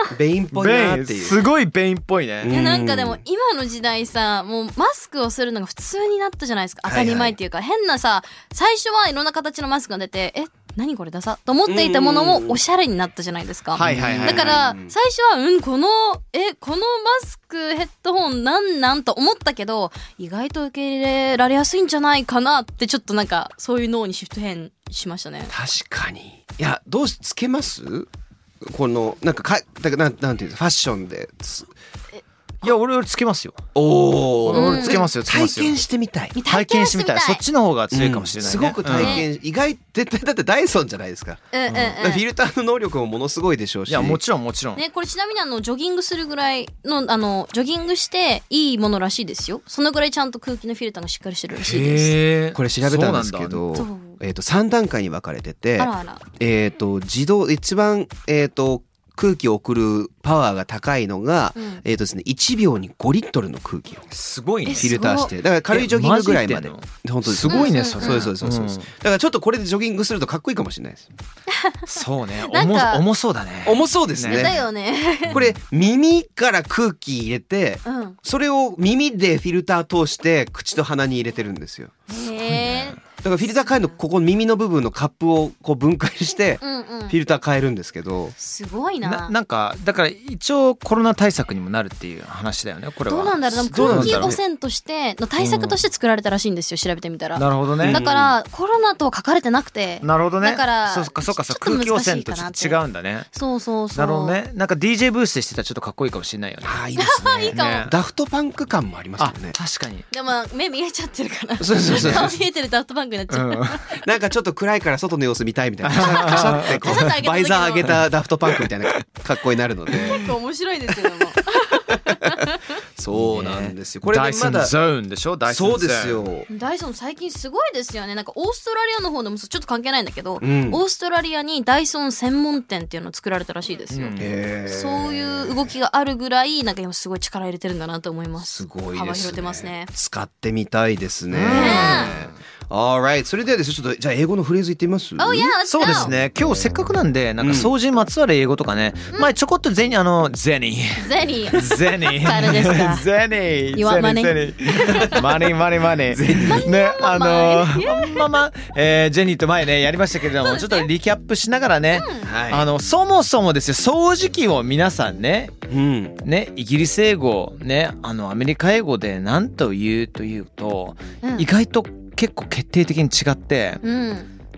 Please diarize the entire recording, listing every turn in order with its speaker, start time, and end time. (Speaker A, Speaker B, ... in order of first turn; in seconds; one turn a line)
Speaker A: 0.1-1.4
Speaker B: 0.5-2.5
Speaker A: 2.4-3.2
Speaker C: 2.5-25.5
Speaker A: 6.8-7.3
Speaker A: 11.7-12.6
Speaker B: 13.7-14.6
Speaker A: 13.8-14.9
Speaker A: 25.5-28.1
Speaker A: 28.6-31.7
Speaker B: 32.6-33.6
Speaker A: 33.7-36.3
Speaker B: 34.5-35.8
Speaker C: 34.5-35.0
Speaker C: 36.3-37.4
Speaker B: 36.5-39.2
Speaker A: 37.9-44.2
Speaker C: 38.9-39.2
Speaker C: 41.5-42.2
Speaker B: 41.7-42.0
Speaker B: 43.9-44.8
Speaker C: 44.8-52.1
Speaker B: 51.6-53.6
Speaker A: 52.5-64.1
Speaker C: 53.7-54.2
Speaker C: 55.8-56.2
Speaker C: 61.5-61.8
Speaker B: 64.1-68.9
Speaker C: 64.7-65.3
Speaker A: 64.8-71.1
Speaker C: 67.5-68.3
Speaker C: 71.5-73.0
Speaker B: 71.9-74.6
Speaker A: 73.6-74.6
Speaker C: 74.3-75.4
Speaker A: 75.3-81.9
Speaker C: 77.8-78.2
Speaker C: 82.1-83.0
Speaker B: 82.4-83.0
Speaker A: 83.2-88.3
Speaker C: 86.6-87.2
Speaker C: 88.4-89.3
Speaker B: 89.0-94.4
Speaker C: 93.1-102.8
Speaker A: 93.7-94.4
Speaker B: 95.4-95.8
Speaker B: 97.3-98.0
Speaker A: 97.8-98.3
Speaker B: 100.0-103.3
Speaker C: 103.3-104.4
Speaker B: 103.9-106.8
Speaker A: 106.6-109.5
Speaker C: 107.0-107.9
Speaker B: 107.5-107.9
Speaker B: 109.2-110.0
Speaker C: 110.1-113.9
Speaker A: 111.6-112.4
Speaker B: 111.9-112.3
Speaker B: 113.3-113.8
Speaker A: 114.0-120.3
Speaker B: 115.8-117.0
Speaker C: 116.0-117.9
Speaker C: 119.9-122.6
Speaker A: 121.9-122.4
Speaker A: 123.0-124.7
Speaker B: 123.1-126.2
Speaker A: 125.5-126.5
Speaker C: 126.5-139.9
Speaker A: 130.4-130.8
Speaker B: 133.9-134.3
Speaker A: 134.2-135.5
Speaker A: 138.4-146.2
Speaker B: 141.3-142.3
Speaker C: 141.5-142.1
Speaker C: 145.2-146.1
Speaker B: 145.7-165.5
Speaker A: 147.4-147.7
Speaker C: 151.0-153.0
Speaker C: 153.8-155.2
Speaker A: 156.1-156.6
Speaker C: 156.4-158.4
Speaker C: 160.4-160.9
Speaker C: 161.9-162.3
Speaker A: 162.2-162.7
Speaker A: 165.7-166.2
Speaker B: 166.2-173.8
Speaker C: 171.2-171.5
Speaker C: 173.8-174.3